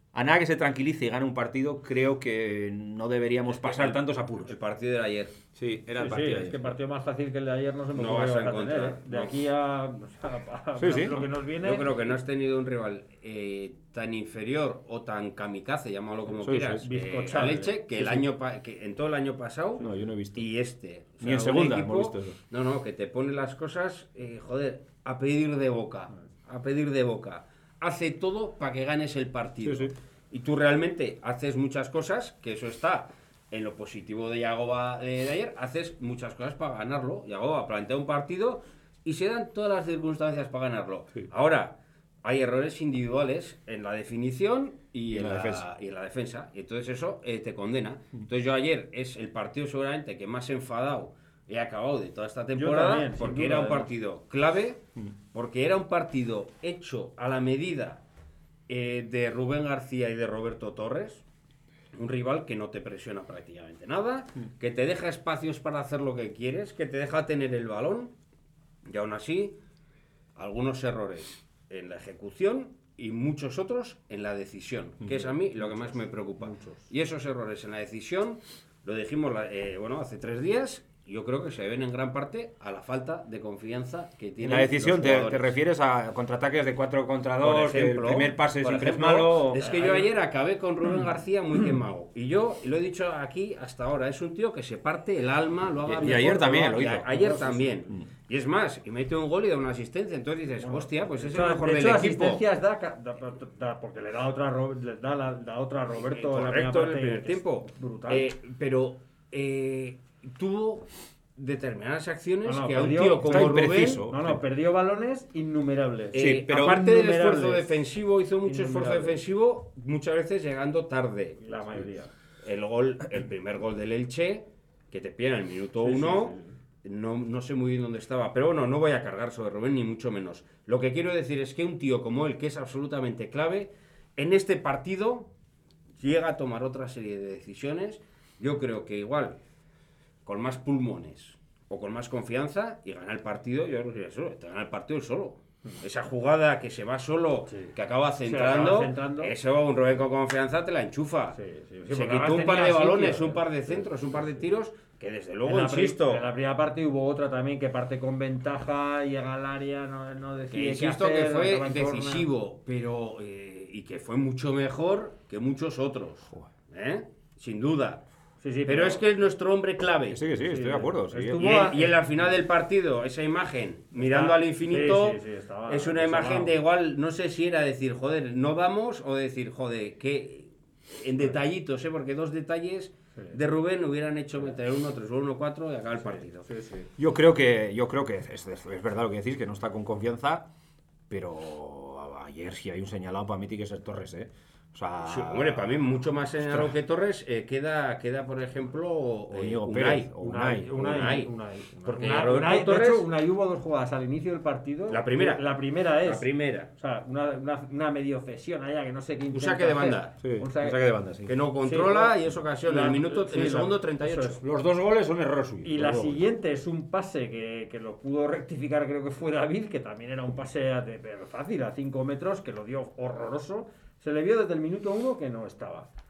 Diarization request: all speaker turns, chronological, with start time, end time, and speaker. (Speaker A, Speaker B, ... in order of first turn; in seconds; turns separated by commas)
Speaker A: 0.1-4.5, Speaker B: 3.5-5.4, Speaker A: 5.6-6.8, Speaker C: 6.0-11.9, Speaker B: 8.0-9.4, Speaker A: 10.8-11.3, Speaker B: 11.6-19.8, Speaker A: 16.4-16.9, Speaker C: 16.9-17.8, Speaker A: 18.0-18.2, Speaker A: 19.8-20.5, Speaker B: 20.4-54.8, Speaker A: 21.2-22.4, Speaker A: 29.6-29.9, Speaker A: 45.1-45.6, Speaker C: 52.5-53.9, Speaker B: 55.3-58.0, Speaker B: 58.7-61.2, Speaker B: 61.9-68.1, Speaker B: 68.9-69.6, Speaker B: 70.4-85.5, Speaker C: 75.6-76.9, Speaker A: 84.4-89.7, Speaker B: 87.4-102.4, Speaker C: 89.6-90.1, Speaker A: 95.8-97.1, Speaker C: 97.1-97.7, Speaker C: 100.6-108.3, Speaker B: 106.0-114.0, Speaker C: 112.5-117.8, Speaker A: 113.2-114.4, Speaker B: 116.1-121.5, Speaker A: 116.1-116.8, Speaker C: 118.4-119.2, Speaker C: 121.4-122.1, Speaker B: 122.4-135.3, Speaker C: 125.8-126.5, Speaker B: 136.0-139.4, Speaker B: 140.3-151.4, Speaker C: 147.5-147.7, Speaker C: 148.2-149.3, Speaker C: 151.4-153.4, Speaker B: 151.9-156.3, Speaker C: 155.4-162.3, Speaker B: 160.5-168.1, Speaker C: 168.4-169.0, Speaker B: 168.7-170.2, Speaker A: 170.1-171.4, Speaker C: 170.4-172.0, Speaker B: 171.4-186.5, Speaker C: 173.9-176.5, Speaker C: 186.0-186.9, Speaker A: 187.0-190.5, Speaker A: 191.1-195.8, Speaker B: 195.0-200.1, Speaker A: 199.3-200.8, Speaker C: 200.2-210.8, Speaker B: 200.7-203.1, Speaker B: 204.9-205.5, Speaker B: 206.0-206.7, Speaker B: 209.3-210.1, Speaker A: 210.2-211.3, Speaker B: 211.3-214.4, Speaker C: 211.6-214.4, Speaker A: 214.4-216.2, Speaker C: 215.6-225.9